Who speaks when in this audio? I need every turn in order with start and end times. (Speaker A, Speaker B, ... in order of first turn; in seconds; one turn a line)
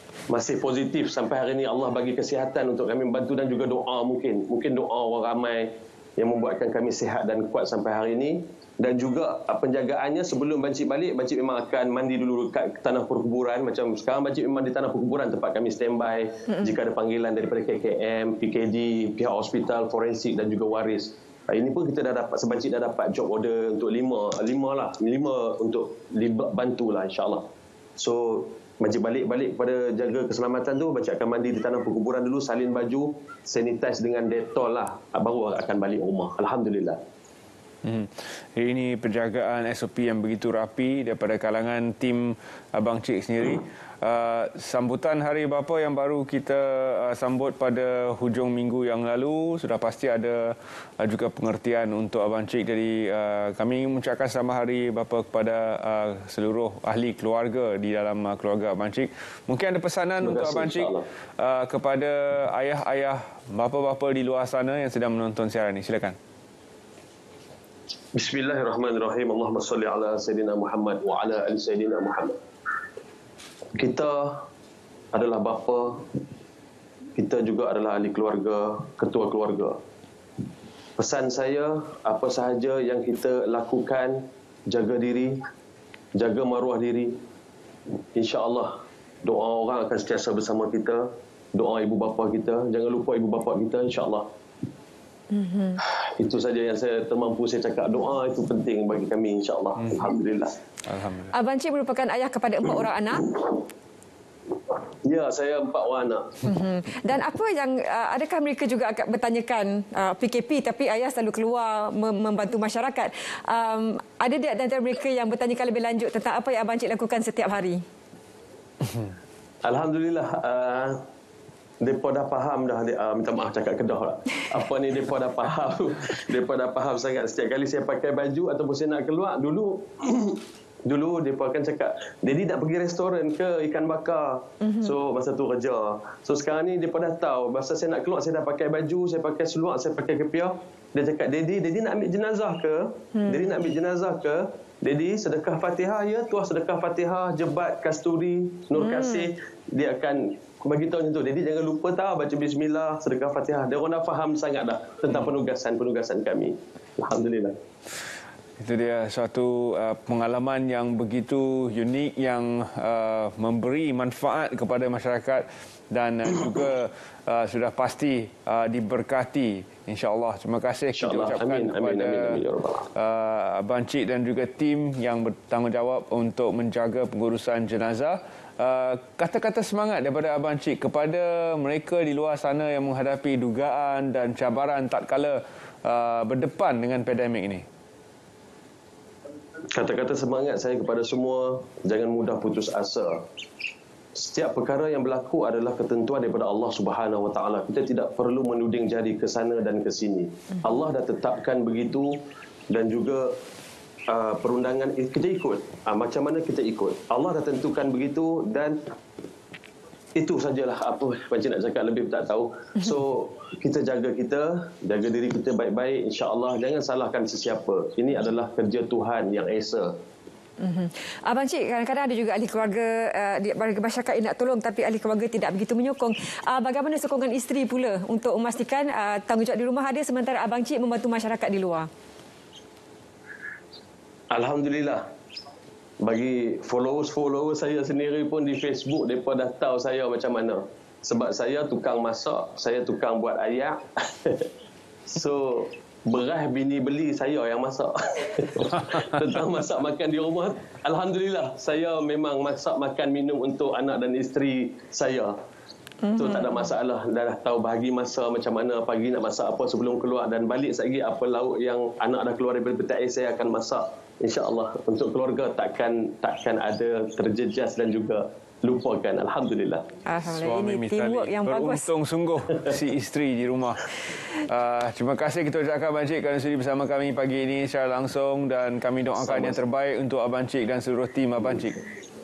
Speaker A: 0.3-27.4
Speaker A: 28.0-37.0
Speaker B: 37.8-66.2
Speaker A: 60.2-61.0
Speaker A: 68.1-72.4
Speaker A: 73.8-74.4
Speaker A: 75.1-76.0
Speaker A: 77.2-79.8
Speaker A: 81.0-85.4
Speaker A: 86.1-87.1
Speaker A: 88.1-88.7
Speaker A: 89.2-94.2
Speaker C: 95.3-95.8
Speaker A: 95.8-100.5
Speaker B: 100.8-101.3
Speaker C: 101.3-103.5
Speaker A: 105.0-106.3
Speaker C: 106.4-117.8
Speaker A: 119.6-121.0
Speaker A: 121.8-157.5
Speaker C: 134.6-134.9
Speaker C: 143.1-143.5
Speaker C: 148.8-149.3
Speaker B: 158.6-172.4
Speaker A: 170.9-172.9
Speaker B: 172.9-187.6
Speaker A: 189.7-193.2
Speaker A: 194.1-202.2
Speaker A: 202.7-203.3
Speaker A: 204.1-208.8
Speaker A: 210.2-219.9
Speaker C: 220.6-231.9
Speaker A: 234.3-235.0
Speaker A: 236.0-244.5
Speaker A: 245.1-255.3
Speaker C: 256.0-256.7
Speaker A: 256.1-269.8
Speaker C: 270.1-271.9
Speaker B: 270.2-281.8
Speaker A: 279.2-279.6